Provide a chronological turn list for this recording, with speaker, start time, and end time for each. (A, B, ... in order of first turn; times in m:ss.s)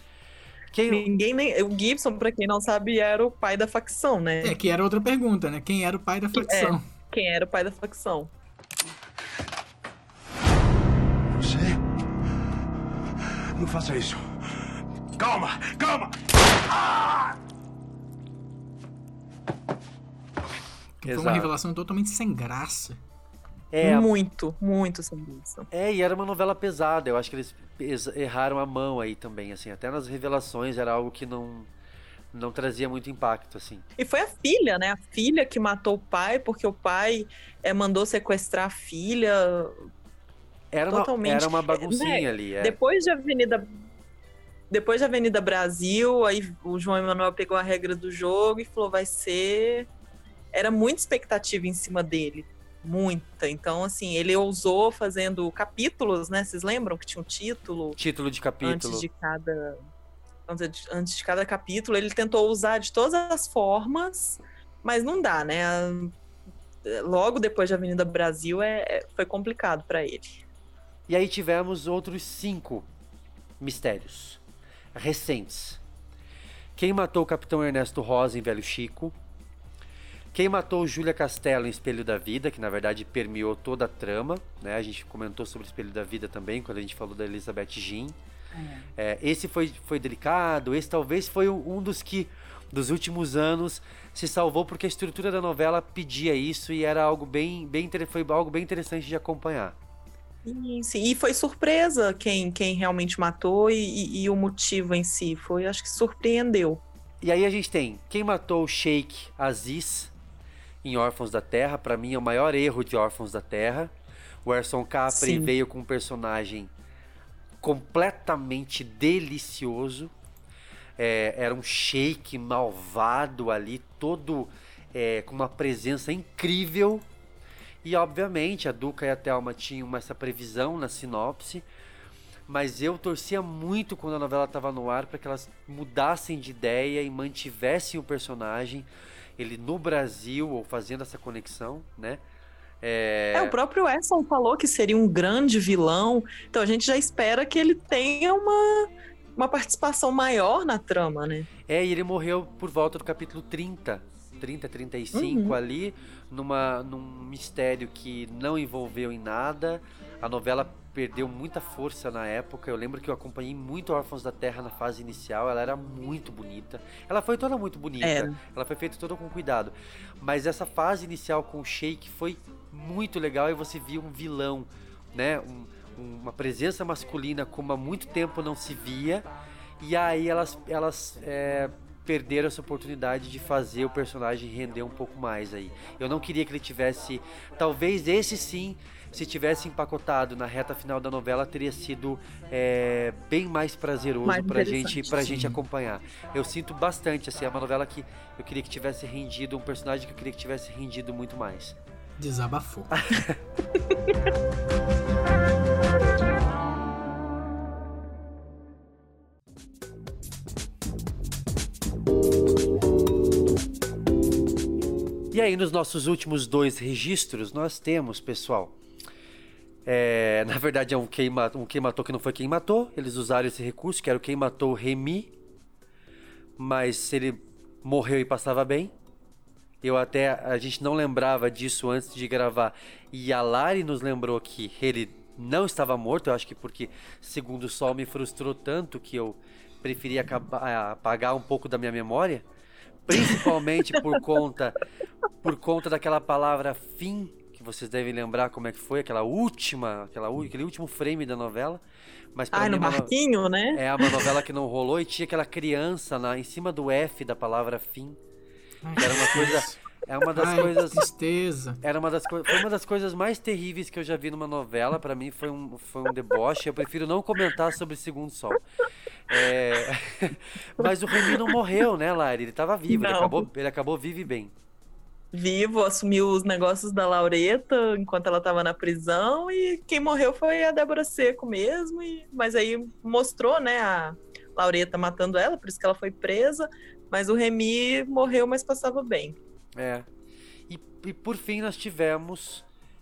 0:00.7-0:01.1 A
0:00.9-0:04.6 B
0:04.4-0:06.8 C
0:06.3-0:08.3 B
0:11.3-0:11.8 D
0:13.6-0:14.3 D
0:15.2-0:17.3 D
0:21.0-0:23.0 C
0:21.0-0:21.5 A
0:23.7-0:24.1 A
0:23.8-0:25.7 B
0:25.7-0:31.7 A
0:32.3-0:33.8 A
0:34.0-0:39.8 B
0:40.7-0:42.8 A
0:40.9-0:43.7 B
0:44.7-0:49.9 B
0:50.5-0:58.0 B
0:58.0-0:59.0 A
0:58.6-0:59.8 B
1:00.5-1:06.1 B
1:06.8-1:10.4 B
1:11.1-1:12.9 A
1:13.6-1:14.4 A
1:15.0-1:15.8 A
1:16.8-1:19.1 A
1:20.3-1:28.2 A
1:28.6-1:28.9 B
1:29.0-1:39.8 A
1:40.5-1:46.8 B
1:47.2-1:50.1 A
1:50.8-1:53.9 A
1:54.4-1:56.7 A
1:55.1-1:55.5 B
1:57.6-2:00.1 A
2:01.0-2:07.0 A
2:07.8-2:11.6 A
2:12.5-2:18.9 A
2:19.4-2:22.2 A
2:22.8-2:23.6 A
2:23.4-2:31.5 B
2:31.7-2:59.3 A
2:35.1-2:35.6 B
2:48.0-2:48.4 B
2:59.8-3:21.8 A
3:14.2-3:15.2 B
3:15.2-3:15.6 C
3:22.2-3:22.9 C
3:35.3-3:38.7 A
3:39.9-3:45.3 A
3:46.6-3:48.9 A
3:49.8-4:02.4 A
4:03.1-4:04.8 A
4:03.2-4:03.4 B
4:05.4-4:11.8 A
4:12.4-4:13.1 A
4:12.5-4:14.3 B
4:13.7-4:18.2 A
4:18.8-4:19.8 C
4:19.0-4:21.1 A
4:20.3-4:21.8 C
4:21.8-4:28.6 A
4:29.3-4:34.5 A
4:30.8-4:31.5 B
4:32.9-4:33.5 B
4:35.3-4:49.4 B
4:49.8-4:50.1 A
4:50.7-4:52.6 A